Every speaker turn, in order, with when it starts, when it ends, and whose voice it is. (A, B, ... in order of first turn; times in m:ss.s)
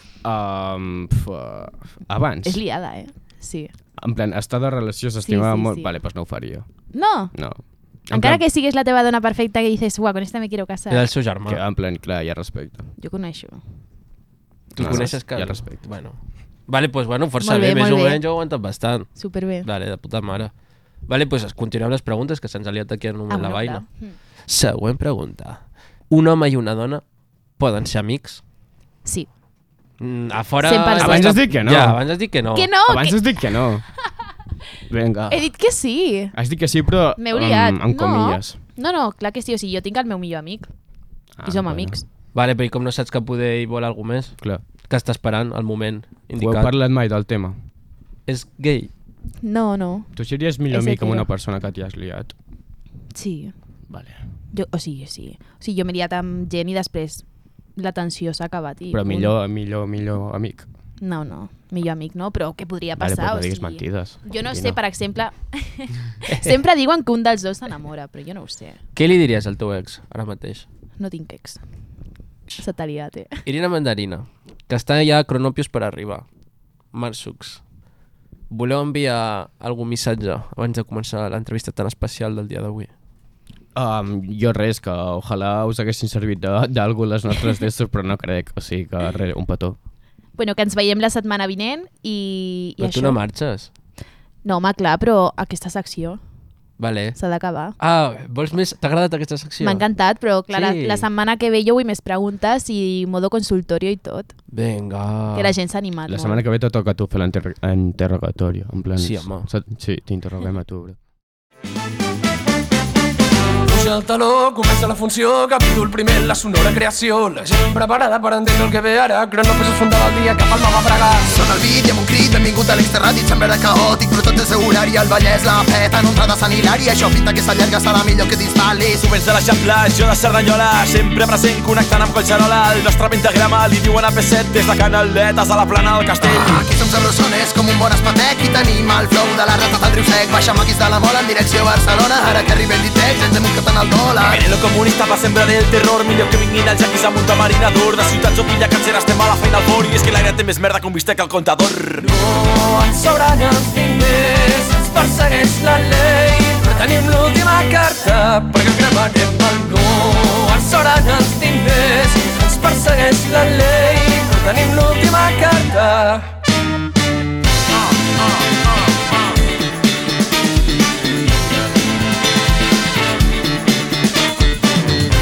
0:00.2-0:02.6 A
0:02.4-0:03.7 B
0:04.0-0:08.4 A
0:05.2-0:05.9 B
0:06.9-0:07.3 B
0:08.1-0:11.1 B
0:10.9-0:11.6 C
0:11.5-0:12.9 A
0:13.0-0:13.6 B
0:14.8-0:20.5 C
0:14.8-0:15.9 A
0:14.8-0:15.2 B
0:17.4-0:18.2 B
0:19.2-0:19.7 B
0:21.0-0:23.9 C
0:23.3-0:24.2 B
0:24.5-0:27.0 C
0:27.6-0:28.4 C
0:30.0-0:32.7 C
0:30.6-0:31.4 B
0:31.0-0:32.0 A
0:32.6-0:33.2 B
0:32.9-0:33.9 A
0:34.9-0:35.5 A
0:35.3-0:36.3 B
0:36.3-0:38.6 A
0:37.2-0:40.7 B
0:41.4-0:42.0 A
0:41.4-0:42.0 B
0:42.3-0:46.7 C
0:46.4-0:47.6 A
0:48.3-0:48.9 C
0:49.4-0:50.1 B
0:50.1-0:52.3 A
0:50.7-0:51.3 B
0:53.1-0:53.5 B
0:53.9-0:54.2 A
0:54.5-0:57.2 B
0:57.8-0:59.3 B
0:58.9-1:00.7 A
1:01.0-1:08.8 B
1:03.0-1:04.8 A
1:09.0-1:10.7 C
1:11.0-1:11.6 B
1:12.6-1:13.4 B
1:13.5-1:16.3 C
1:16.9-1:17.6 C
1:18.5-1:22.9 C
1:23.8-1:29.8 A
1:30.4-1:33.2 B
1:32.8-1:33.7 C
1:34.4-1:36.2 B
1:36.8-1:37.2 C
1:37.2-1:37.8 B
1:37.8-1:39.9 C
1:39.6-1:44.3 B
1:40.5-1:41.1 C
1:44.5-1:45.5 C
1:45.3-1:46.4 B
1:46.1-1:51.0 A
1:49.0-1:49.5 C
1:53.7-2:01.3 D
2:01.3-2:09.1 E
2:09.0-2:16.6 F
2:16.2-2:24.4 E
2:24.2-2:32.1 F
2:32.0-2:46.3 D